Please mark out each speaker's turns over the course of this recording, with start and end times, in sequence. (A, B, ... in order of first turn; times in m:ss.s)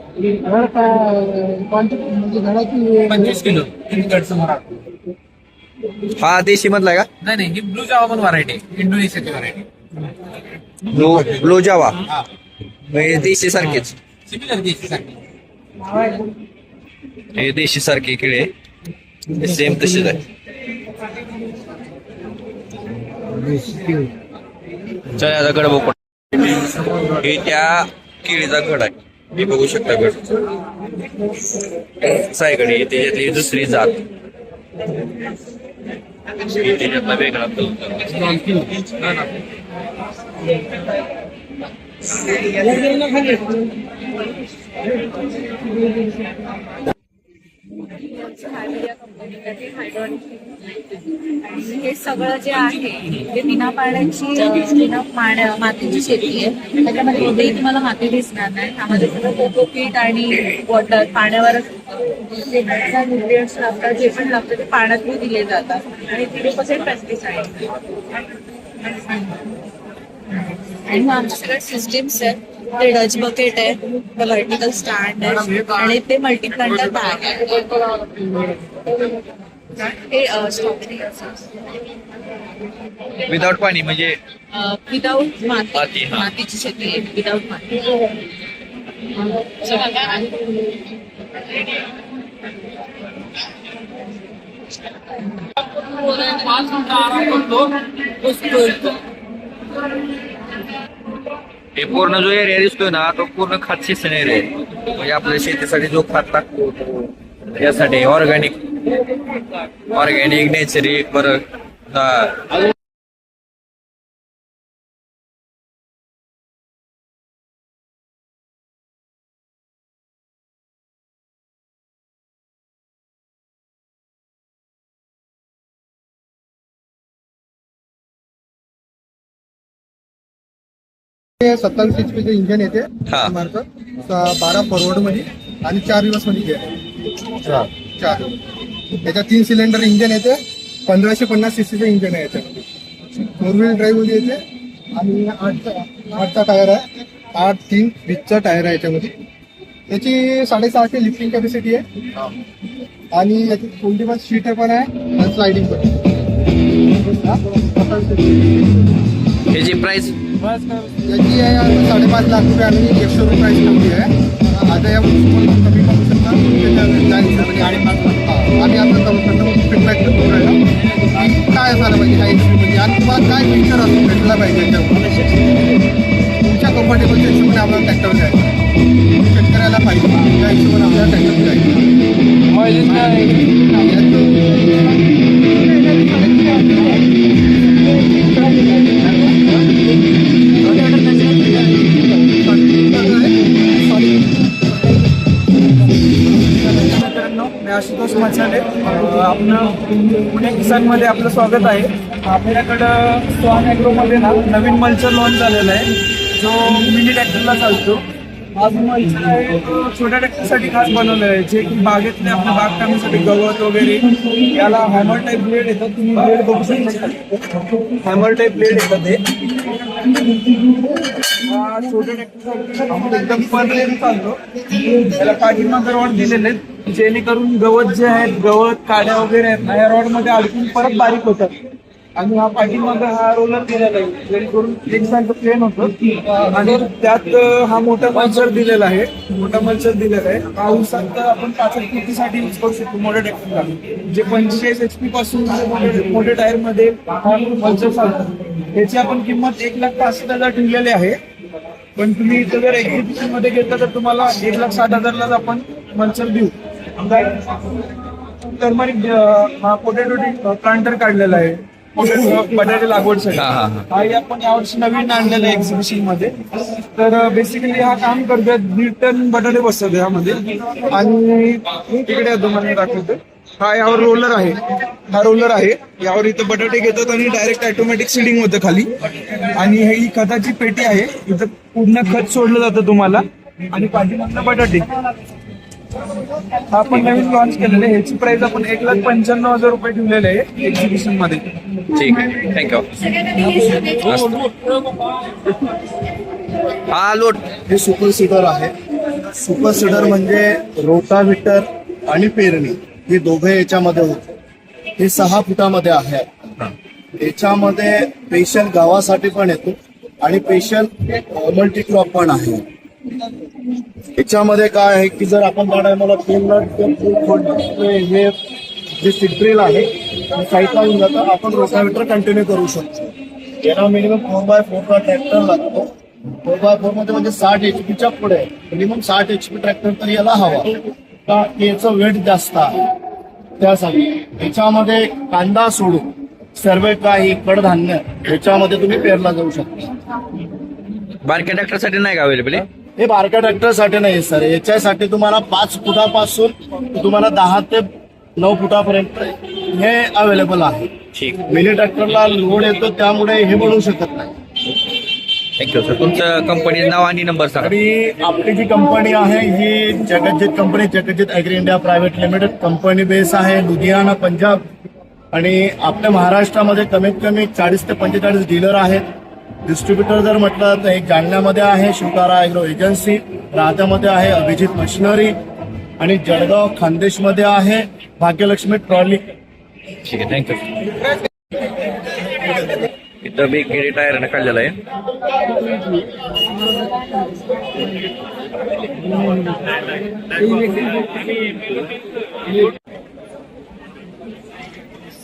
0:00.5-0:03.0 A
0:03.1-0:04.5 B
0:06.2-0:07.1 C
0:07.2-0:09.5 B
0:10.9-0:12.0 C
0:12.9-0:14.0 C
0:14.3-0:15.0 B
0:17.4-0:18.5 C
0:19.3-0:20.2 C
0:25.1-0:26.0 C
0:26.6-0:30.3 C
0:32.0-0:34.0 C
0:36.4-0:39.2 C
0:42.9-0:43.2 D
0:48.0-1:01.7 D
1:02.2-1:07.8 D
1:10.8-1:18.5 D
1:19.7-1:21.5 D
1:23.2-1:24.2 C
1:24.5-1:28.1 D
1:25.7-1:26.3 C
1:29.4-1:30.5 D
1:36.1-1:39.0 D
1:41.8-1:48.6 C
1:49.9-1:52.5 C
2:11.4-2:16.7 A
2:13.1-2:13.3 C
2:17.5-2:18.3 A
2:19.0-2:22.6 A
2:23.3-2:24.4 A
2:24.9-2:29.1 A
2:29.9-2:31.8 A
2:33.1-2:36.0 A
2:37.0-2:38.9 A
2:39.5-2:40.2 C
2:41.1-2:44.1 A
2:44.6-2:50.6 A
2:51.2-2:55.0 A
2:56.4-2:58.5 A
2:59.2-3:01.9 A
3:02.6-3:03.4 B
3:03.8-3:05.0 A
3:05.5-3:07.0 A
3:08.3-3:09.5 A
3:10.6-3:14.5 A
3:16.5-3:28.0 E
3:28.5-3:37.4 E
3:38.0-3:39.2 E
3:41.4-3:51.6 E
3:52.2-4:11.2 E
4:12.0-4:17.6 E
4:18.5-4:38.9 E
4:23.3-4:23.8 C
4:39.5-4:44.9 E
4:46.7-4:51.5 E
4:51.9-4:52.9 C
4:53.8-4:54.5 C
4:56.9-4:57.4 C
4:57.6-5:04.3 F
5:05.0-5:06.3 F
5:07.2-5:12.6 F
5:14.1-5:18.3 F
5:19.0-5:25.9 F
5:26.4-5:32.8 F
5:33.6-5:39.8 F
5:41.2-5:42.6 C
5:43.0-5:50.9 F
5:51.1-5:51.4 C
5:51.5-5:54.3 F
5:55.6-5:57.7 C
5:57.6-6:04.6 F
6:05.3-6:09.0 F
6:09.6-6:15.3 F
6:16.0-6:19.2 F
6:20.0-6:20.8 C
6:23.2-6:24.8 C
6:30.6-6:31.0 B